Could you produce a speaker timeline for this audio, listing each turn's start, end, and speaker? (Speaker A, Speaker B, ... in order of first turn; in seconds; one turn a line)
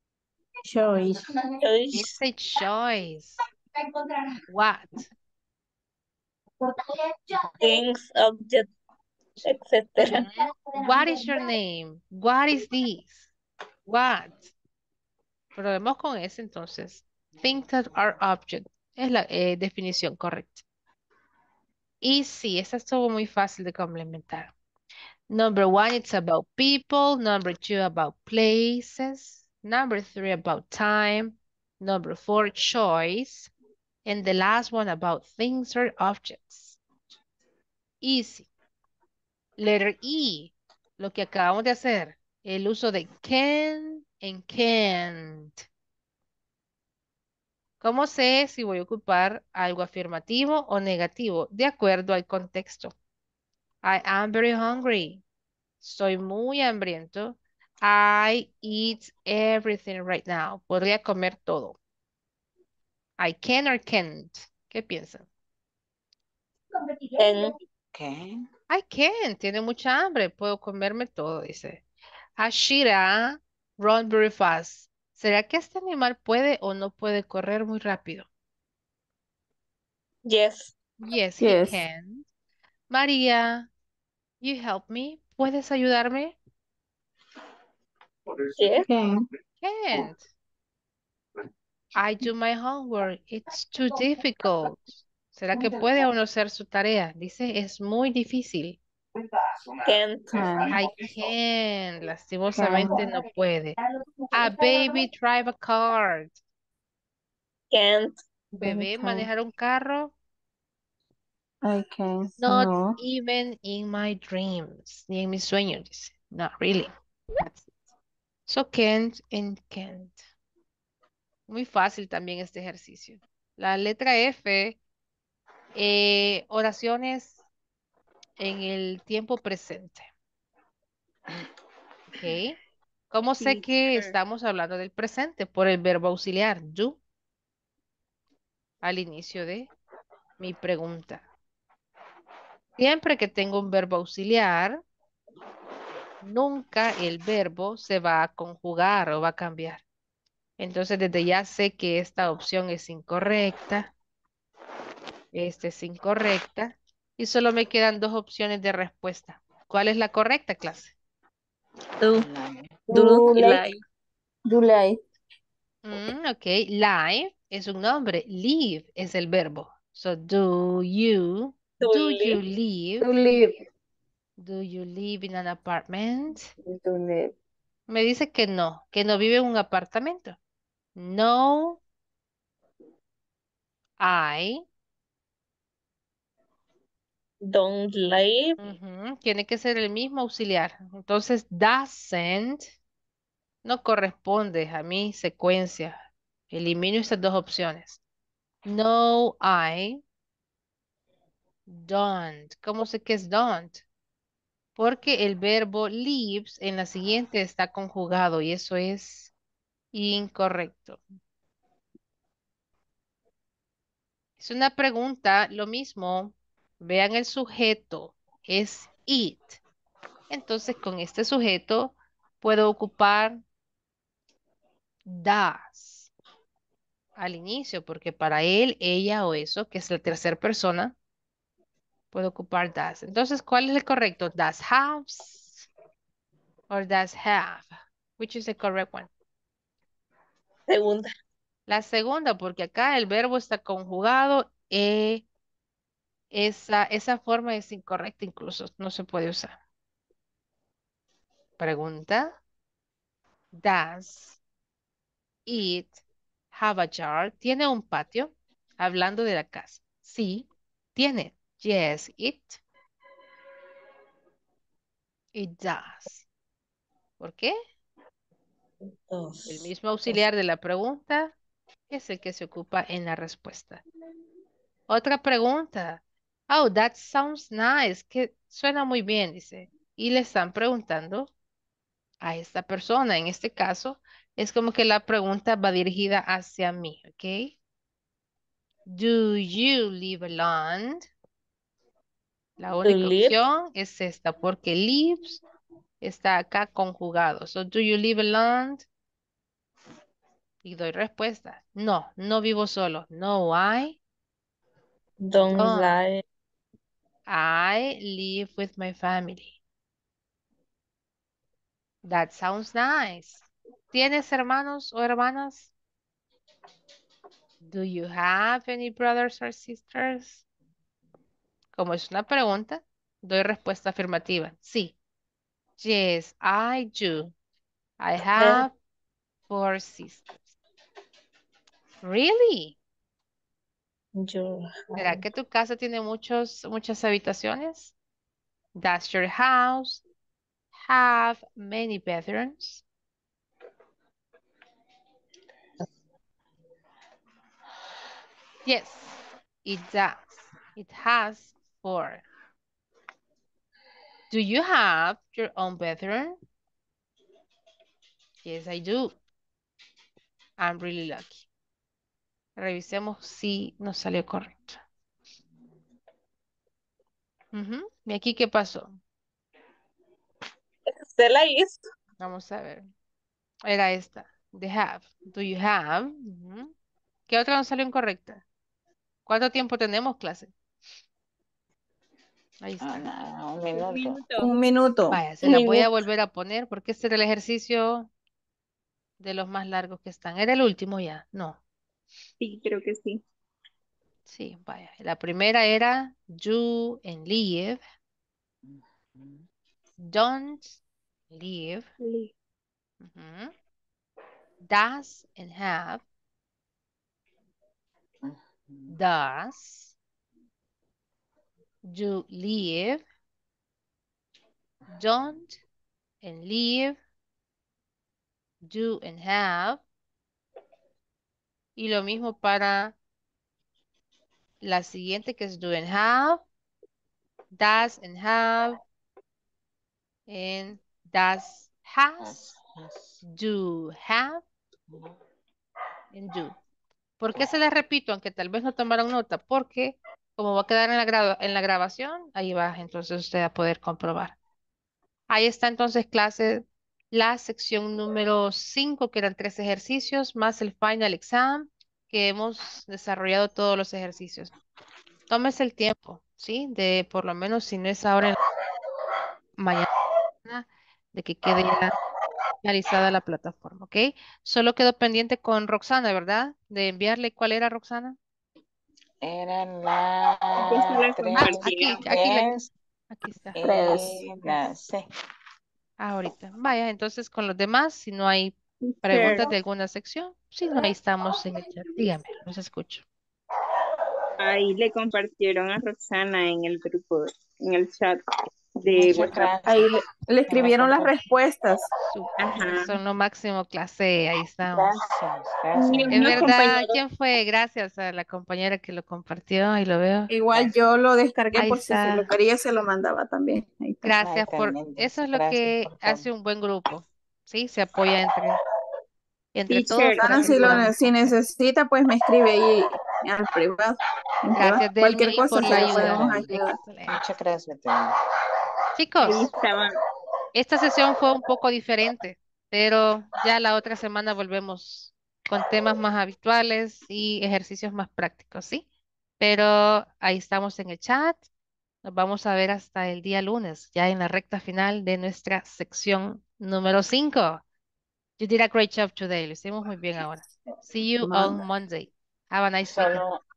Speaker A: 0.7-1.3
Speaker B: 1.6-2.2
Speaker C: 1.9-3.4
Speaker C: 4.5-5.1
Speaker B: 7.6-8.7
Speaker B: 9.4-10.2
Speaker C: 10.0-13.3
Speaker C: 13.9-14.5
Speaker C: 15.5-20.6
Speaker D: 17.4-17.9
Speaker C: 22.0-24.5
Speaker C: 25.3-33.5
Speaker C: 34.0-36.8
Speaker C: 38.0-38.5
Speaker C: 39.6-45.6
Speaker C: 47.8-52.9
Speaker C: 53.8-55.2
Speaker C: 55.8-61.8
Speaker C: 63.2-65.3
Speaker B: 67.1-67.5
Speaker D: 67.9-68.4
Speaker C: 68.7-71.8
Speaker C: 72.4-78.3
Speaker B: 80.2-80.7
Speaker C: 81.0-82.2
Speaker A: 81.4-81.8
Speaker C: 82.9-83.7
Speaker C: 84.4-86.3
Speaker B: 88.5-88.9
Speaker A: 88.8-89.2
Speaker C: 89.6-90.2
Speaker C: 92.0-98.8
Speaker B: 99.8-100.5
Speaker A: 100.3-100.8
Speaker C: 100.7-103.8
Speaker A: 102.6-103.0
Speaker C: 104.3-106.4
Speaker B: 107.7-108.1
Speaker C: 108.5-110.1
Speaker A: 108.6-109.3
Speaker A: 111.6-113.0
Speaker C: 112.4-117.7
Speaker C: 118.5-120.2
Speaker C: 121.5-124.8
Speaker C: 125.7-127.4
Speaker C: 128.4-130.1
Speaker C: 132.1-132.6
Speaker C: 133.1-137.0
Speaker B: 133.4-134.1
Speaker C: 138.8-139.7
Speaker C: 140.4-141.3
Speaker C: 142.8-144.8
Speaker C: 146.2-149.8
Speaker C: 150.6-153.9
Speaker C: 155.3-160.9
Speaker B: 162.0-162.3
Speaker D: 162.1-162.7
Speaker A: 162.9-163.6
Speaker B: 162.9-163.8
Speaker A: 164.5-165.0
Speaker C: 165.8-173.1
Speaker B: 171.8-172.4
Speaker A: 173.0-173.6
Speaker C: 174.4-176.5
Speaker A: 176.6-177.3
Speaker C: 177.9-180.4
Speaker C: 180.9-181.8
Speaker C: 184.0-184.6
Speaker B: 187.4-188.6
Speaker C: 188.6-192.7
Speaker C: 193.6-196.0
Speaker C: 196.5-198.0
Speaker C: 198.6-200.0
Speaker C: 201.7-203.8
Speaker C: 204.8-209.3
Speaker C: 209.9-211.0
Speaker C: 214.4-219.6
Speaker C: 220.3-223.4
Speaker C: 225.1-226.1
Speaker C: 227.2-230.9
Speaker C: 232.1-235.7
Speaker C: 236.7-239.1
Speaker B: 240.7-241.1
Speaker C: 241.7-245.2
Speaker C: 246.3-249.6
Speaker C: 251.6-252.4
Speaker C: 253.5-254.4
Speaker C: 255.4-256.0
Speaker C: 256.5-262.6
Speaker C: 265.3-266.2
Speaker C: 267.2-267.5
Speaker B: 269.1-269.7
Speaker C: 269.5-271.3
Speaker C: 271.9-273.8
Speaker C: 274.9-281.3
Speaker C: 282.2-287.6
Speaker C: 288.9-291.0
Speaker C: 292.6-295.4
Speaker B: 292.8-293.4
Speaker C: 296.0-298.9
Speaker C: 300.6-304.0
Speaker B: 305.2-306.2
Speaker C: 305.5-306.0
Speaker C: 307.3-309.6
Speaker C: 312.0-315.7
Speaker C: 317.6-320.4
Speaker C: 321.7-324.9
Speaker C: 325.8-327.3
Speaker C: 328.0-328.7
Speaker B: 328.4-328.6
Speaker C: 329.5-330.4
Speaker C: 332.0-332.8
Speaker B: 334.1-335.2
Speaker C: 334.9-337.9
Speaker C: 338.8-340.0
Speaker C: 340.7-342.8
Speaker C: 348.6-352.2
Speaker C: 354.3-356.4
Speaker C: 358.4-359.2
Speaker C: 360.6-361.4
Speaker C: 362.6-364.8
Speaker C: 367.5-369.0
Speaker B: 370.9-371.8
Speaker C: 372.2-372.9
Speaker C: 373.6-376.7
Speaker C: 377.3-378.4
Speaker C: 379.2-380.5
Speaker C: 382.6-383.1
Speaker D: 382.8-384.2
Speaker B: 383.7-384.5
Speaker A: 384.4-385.2
Speaker C: 385.1-388.1
Speaker B: 385.4-385.9
Speaker C: 389.2-391.6
Speaker C: 394.3-397.8
Speaker D: 398.6-399.4
Speaker C: 400.0-400.8
Speaker C: 401.3-401.9
Speaker A: 402.0-402.3
Speaker C: 403.0-403.5
Speaker C: 404.6-406.0
Speaker D: 408.2-408.9
Speaker C: 408.9-409.9
Speaker C: 411.9-413.0
Speaker C: 414.9-415.6
Speaker C: 416.2-417.0
Speaker C: 418.6-419.8
Speaker C: 421.8-422.9
Speaker C: 424.6-426.4
Speaker C: 427.5-428.8
Speaker C: 430.3-432.6
Speaker D: 432.2-433.2
Speaker C: 433.2-434.4
Speaker D: 434.9-435.2
Speaker C: 436.1-436.6
Speaker C: 437.2-444.4
Speaker C: 445.3-454.5
Speaker C: 455.3-458.4
Speaker C: 459.6-459.9
Speaker C: 460.4-461.9
Speaker C: 462.6-468.2
Speaker D: 469.2-472.7
Speaker B: 470.8-472.0
Speaker C: 471.4-473.6
Speaker D: 473.5-475.1
Speaker A: 473.6-474.2
Speaker C: 476.0-483.0
Speaker A: 478.9-479.5
Speaker E: 484.4-488.2
Speaker A: 488.8-491.9
Speaker D: 488.9-489.9
Speaker D: 490.5-491.3
Speaker C: 492.1-495.0
Speaker D: 494.6-496.7
Speaker A: 495.7-496.9
Speaker C: 496.1-500.3
Speaker A: 500.3-504.1
Speaker C: 501.5-502.3
Speaker C: 504.0-508.6
Speaker D: 504.2-506.3
Speaker C: 509.5-511.3
Speaker A: 509.7-516.8
Speaker D: 510.3-510.8
Speaker C: 514.5-517.2
Speaker D: 515.5-516.5
Speaker D: 517.1-518.1
Speaker C: 519.0-519.5
Speaker A: 519.2-519.9
Speaker C: 520.5-528.9
Speaker C: 529.4-531.4
Speaker C: 532.0-537.6
Speaker C: 538.4-543.2
Speaker A: 541.2-541.6
Speaker D: 542.8-543.4